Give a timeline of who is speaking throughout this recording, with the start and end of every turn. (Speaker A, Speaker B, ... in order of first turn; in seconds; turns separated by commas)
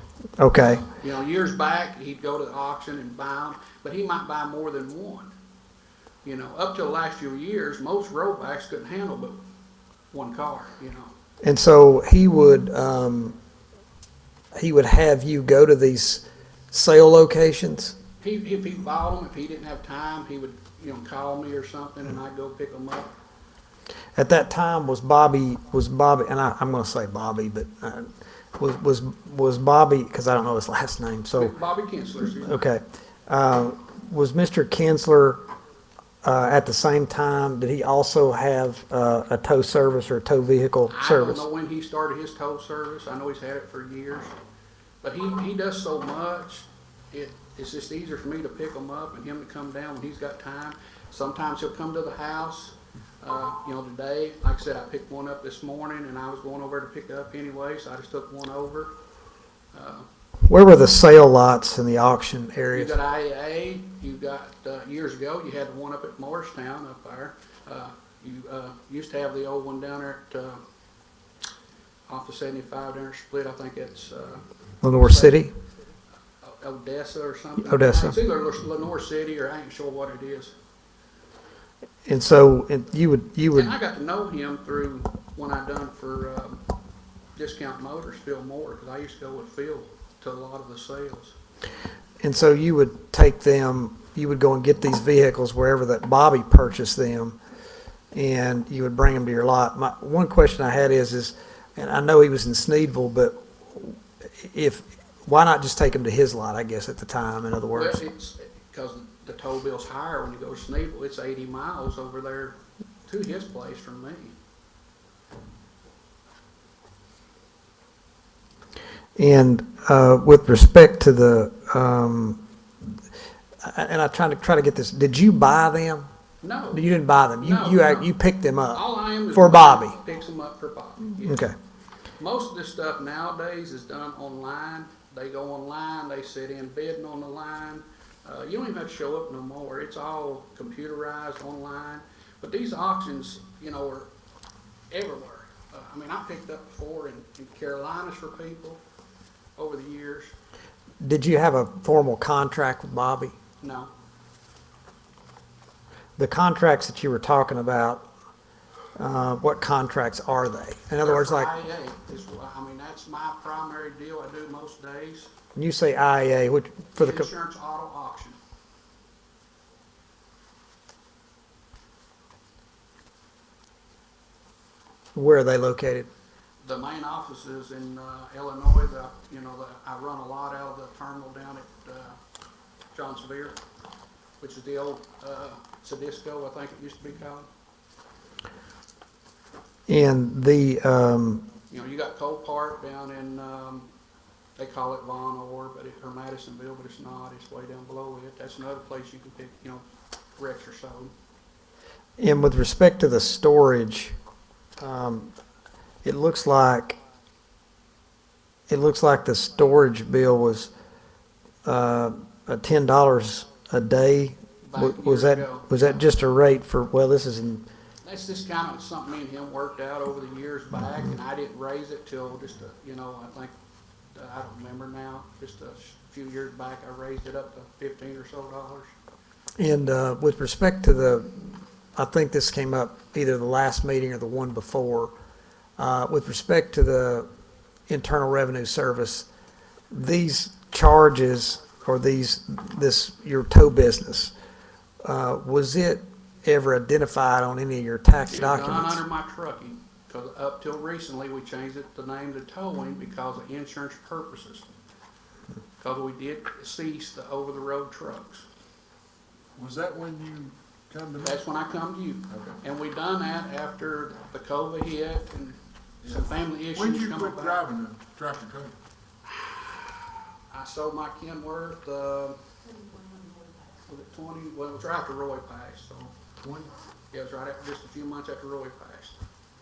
Speaker A: 0.4-0.9, Speaker B: 0.8-5.3, Speaker B: 6.2-9.4, Speaker B: 10.1-11.1, Speaker A: 11.4-13.4, Speaker A: 14.5-17.9, Speaker B: 18.2-23.1, Speaker A: 24.1-31.5, Speaker B: 31.4-32.6, Speaker A: 32.4-35.4, Speaker A: 36.2-41.5, Speaker B: 40.9-44.3, Speaker B: 45.0-58.9, Speaker B: 59.7-60.1, Speaker A: 60.5-63.0, Speaker B: 62.7-70.6, Speaker B: 72.1-74.4, Speaker A: 74.8-75.5, Speaker B: 75.0-75.4, Speaker B: 76.4-80.5, Speaker A: 77.6-78.2, Speaker A: 82.1-83.7, Speaker B: 83.5-86.6, Speaker B: 87.4-91.3, Speaker A: 92.2-97.4, Speaker A: 98.1-108.0, Speaker B: 107.7-112.5, Speaker B: 113.1-114.3, Speaker A: 119.2-122.4, Speaker A: 123.6-126.1, Speaker B: 126.4-126.8, Speaker A: 126.7-130.0, Speaker B: 127.4-128.1, Speaker B: 128.7-131.5, Speaker A: 131.2-131.5, Speaker B: 132.2-144.1, Speaker B: 144.9-148.8, Speaker B: 149.6-150.3, Speaker A: 151.0-153.3, Speaker B: 153.6-153.9, Speaker A: 156.2-158.1, Speaker A: 159.0-161.5, Speaker B: 161.0-165.3, Speaker A: 165.6-167.3, Speaker B: 167.0-168.4, Speaker A: 175.2-176.1, Speaker B: 176.6-182.2, Speaker B: 182.9-183.6, Speaker B: 184.4-187.5, Speaker A: 189.9-191.5, Speaker B: 191.7-193.9, Speaker B: 194.6-199.8, Speaker B: 200.4-201.1, Speaker A: 202.2-204.2, Speaker A: 204.8-205.3, Speaker A: 206.0-207.0, Speaker A: 208.7-210.7, Speaker A: 211.7-217.7, Speaker B: 214.7-215.9, Speaker B: 218.0-223.5, Speaker B: 224.2-228.9, Speaker A: 229.6-235.1, Speaker A: 235.8-237.3, Speaker A: 237.9-239.3, Speaker A: 239.9-244.3, Speaker A: 245.1-249.0, Speaker B: 248.3-254.7, Speaker B: 255.8-258.4, Speaker C: 259.6-261.4, Speaker B: 261.2-267.6, Speaker C: 262.3-262.6, Speaker C: 266.1-268.7, Speaker B: 270.5-272.4, Speaker B: 273.8-276.1, Speaker C: 276.4-276.7, Speaker B: 277.1-279.2